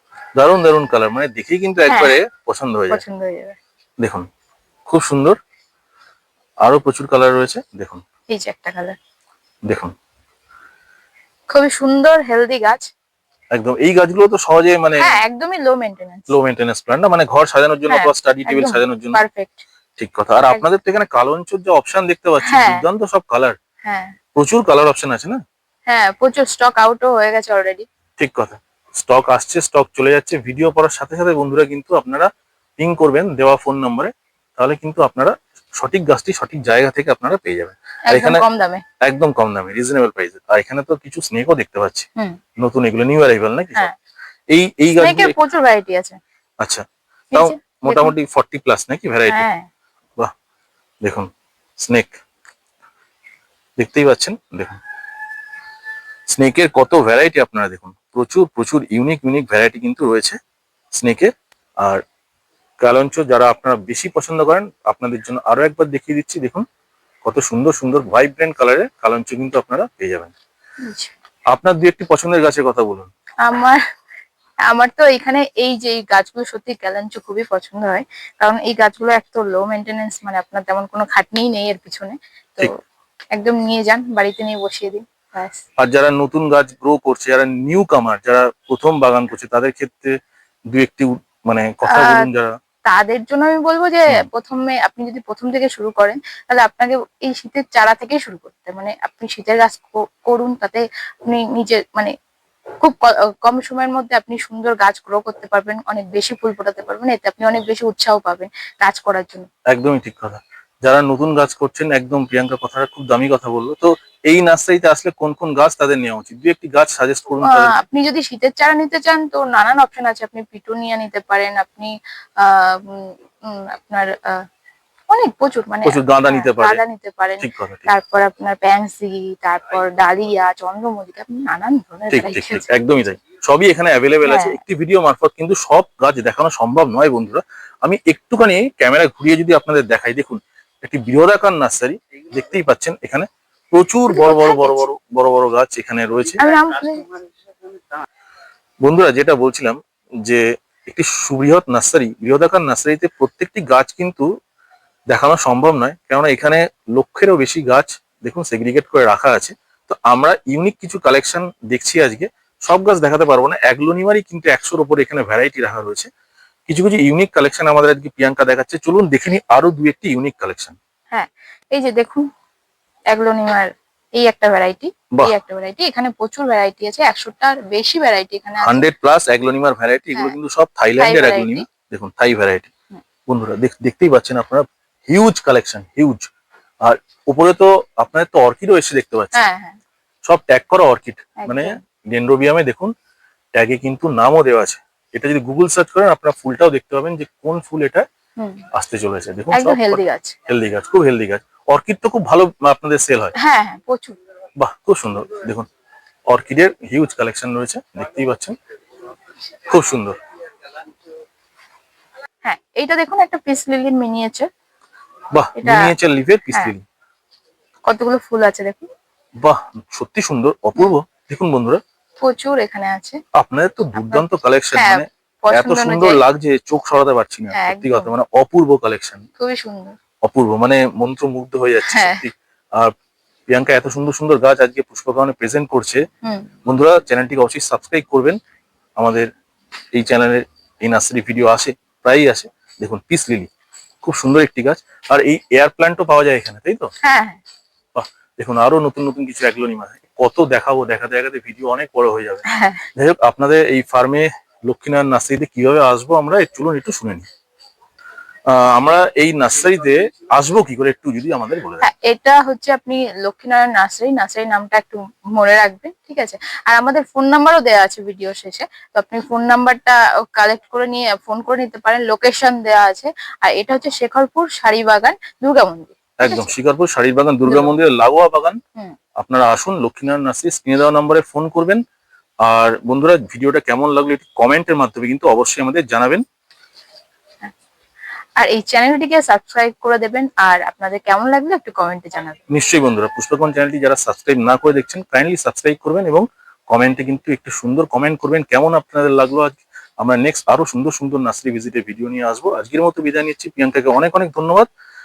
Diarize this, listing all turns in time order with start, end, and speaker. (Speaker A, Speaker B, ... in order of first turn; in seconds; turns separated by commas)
Speaker A: 0.3-3.0, Speaker B: 1.9-2.1, Speaker B: 2.9-3.6, Speaker A: 4.0-4.3, Speaker A: 4.9-5.4, Speaker A: 6.6-8.0, Speaker B: 8.3-9.0, Speaker B: 11.5-12.9, Speaker A: 13.5-15.2, Speaker B: 15.0-16.3, Speaker A: 16.3-19.2, Speaker B: 17.9-19.6, Speaker A: 20.0-23.6, Speaker B: 22.4-22.8, Speaker B: 23.8-24.1, Speaker A: 24.3-25.4, Speaker B: 25.9-27.9, Speaker A: 28.2-32.3, Speaker A: 32.8-38.4, Speaker B: 38.1-38.8, Speaker A: 39.0-42.1, Speaker A: 42.6-43.9, Speaker A: 44.5-45.3, Speaker B: 44.9-46.2, Speaker A: 46.6-49.5, Speaker B: 47.3-48.1, Speaker B: 49.3-49.7, Speaker A: 51.0-51.3, Speaker A: 51.8-52.2, Speaker A: 53.8-54.8, Speaker A: 56.3-60.4, Speaker A: 61.0-61.3, Speaker A: 62.8-66.6, Speaker A: 67.2-70.3, Speaker B: 70.8-71.1, Speaker A: 71.5-73.1, Speaker B: 73.4-73.8, Speaker B: 74.7-82.8, Speaker B: 83.3-85.6, Speaker A: 85.8-90.1, Speaker A: 90.7-92.5, Speaker B: 91.9-92.3, Speaker B: 92.8-102.1, Speaker B: 102.8-109.5, Speaker A: 109.7-117.8, Speaker B: 117.4-124.4, Speaker B: 125.1-132.6, Speaker A: 125.8-126.8, Speaker A: 127.4-127.9, Speaker A: 132.1-146.4, Speaker B: 134.2-134.6, Speaker B: 144.1-144.8, Speaker B: 146.4-147.1, Speaker A: 148.8-154.3, Speaker A: 155.1-166.1, Speaker A: 166.7-170.8, Speaker B: 171.1-172.2, Speaker B: 173.1-178.8, Speaker A: 178.6-182.7, Speaker B: 181.0-181.7, Speaker A: 183.3-186.3, Speaker A: 186.8-189.4, Speaker B: 189.3-189.8, Speaker A: 190.2-192.9, Speaker B: 191.4-191.8, Speaker A: 193.5-198.1, Speaker B: 198.4-198.6, Speaker A: 198.7-203.3, Speaker B: 199.5-200.4, Speaker B: 203.3-204.2, Speaker A: 204.6-205.7, Speaker A: 206.3-208.6, Speaker A: 209.7-210.1, Speaker B: 212.4-214.5, Speaker A: 215.3-216.8, Speaker B: 215.6-215.9, Speaker B: 217.9-218.9, Speaker A: 219.4-221.8, Speaker B: 222.2-223.2, Speaker A: 223.3-229.3, Speaker B: 224.7-226.2, Speaker B: 227.5-228.1, Speaker B: 229.4-229.9, Speaker A: 230.2-232.9, Speaker B: 231.9-232.2, Speaker A: 233.5-236.0, Speaker B: 236.2-236.5, Speaker A: 236.7-238.4, Speaker A: 239.0-239.3, Speaker A: 239.9-243.5, Speaker A: 244.0-246.9, Speaker B: 247.0-247.4, Speaker A: 247.9-252.4, Speaker B: 252.5-252.8, Speaker A: 252.9-257.2, Speaker A: 258.5-261.9, Speaker B: 261.8-276.5, Speaker A: 276.2-278.6, Speaker B: 277.4-277.8, Speaker A: 279.2-281.8, Speaker A: 282.4-286.2, Speaker B: 288.4-292.4, Speaker A: 292.5-304.7